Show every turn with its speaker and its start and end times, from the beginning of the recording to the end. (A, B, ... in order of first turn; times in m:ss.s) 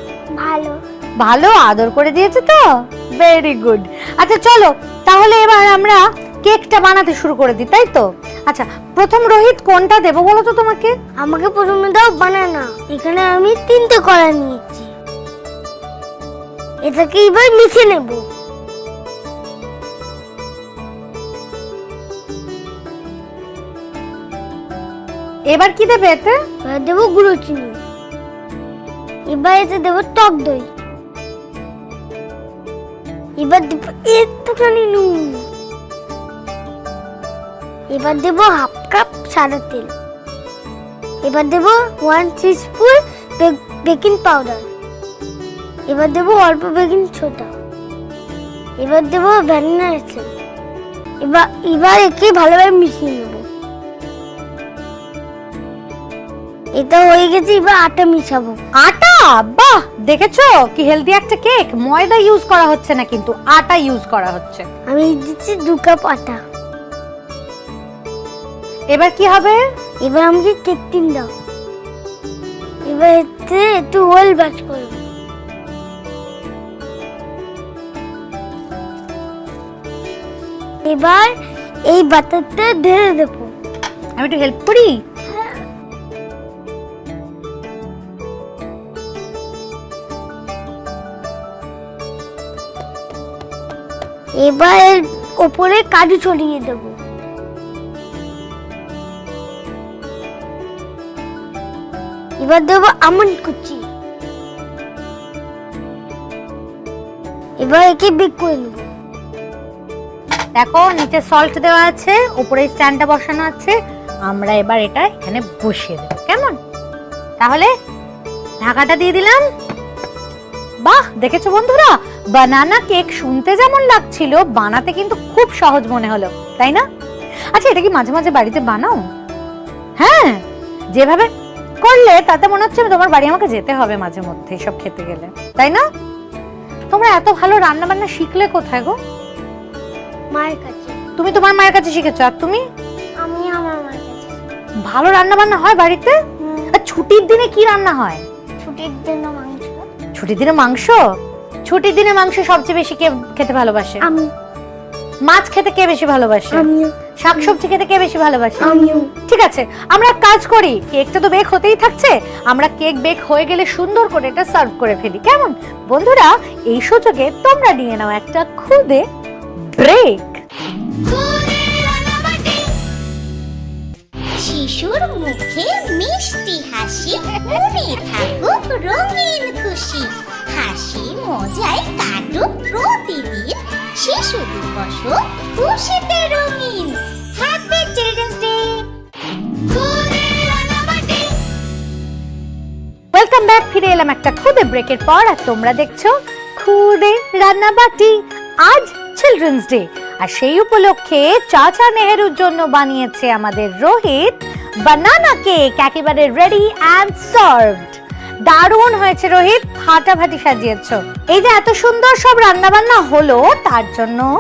0:00.4-0:00.8 A
0:01.2-0:02.6 B
0:03.2-0:10.9 B
0:11.2-0:14.9 A
0:16.8-0:18.2 A
0:25.5-0:26.4 B
0:26.6-0:27.8 A
0:29.3-0:30.7 A
0:33.4-0:35.4 A
0:37.9-0:39.9 A
0:41.2-0:44.7 A
0:45.9-0:47.5 A
0:48.8-0:50.3 A
0:51.2-0:53.4 A
0:56.8-0:58.6 A
0:58.8-1:04.6 B
1:04.9-1:06.4 A
1:08.9-1:09.6 B
1:10.0-1:11.3 A
1:12.9-1:15.0 A
1:20.8-1:21.3 A
1:21.9-1:23.5 A
1:24.2-1:24.9 B
1:34.4-1:37.0 A
1:42.4-1:43.8 A
1:47.6-1:48.9 A
1:50.6-1:53.8 B
1:54.3-1:56.6 B
1:57.4-1:57.7 B
1:58.6-1:59.4 B
2:00.8-2:06.8 B
2:07.5-2:09.0 B
2:10.0-2:10.4 B
2:10.9-2:11.3 B
2:11.8-2:15.8 B
2:16.9-2:19.0 B
2:20.3-2:21.0 A
2:21.2-2:22.6 B
2:23.2-2:24.4 A
2:24.9-2:26.1 B
2:26.4-2:26.8 A
2:26.8-2:28.2 B
2:28.6-2:29.8 A
2:30.1-2:31.0 B
2:31.7-2:34.0 B
2:34.0-2:34.3 A
2:35.3-2:36.7 B
2:36.5-2:36.9 A
2:37.2-2:38.7 B
2:38.6-2:39.1 A
2:39.3-2:49.0 B
2:49.8-2:50.4 B
2:51.1-2:52.7 C
2:54.4-3:08.9 C
3:09.7-3:11.3 C
3:13.1-3:24.4 B
3:24.9-3:34.3 B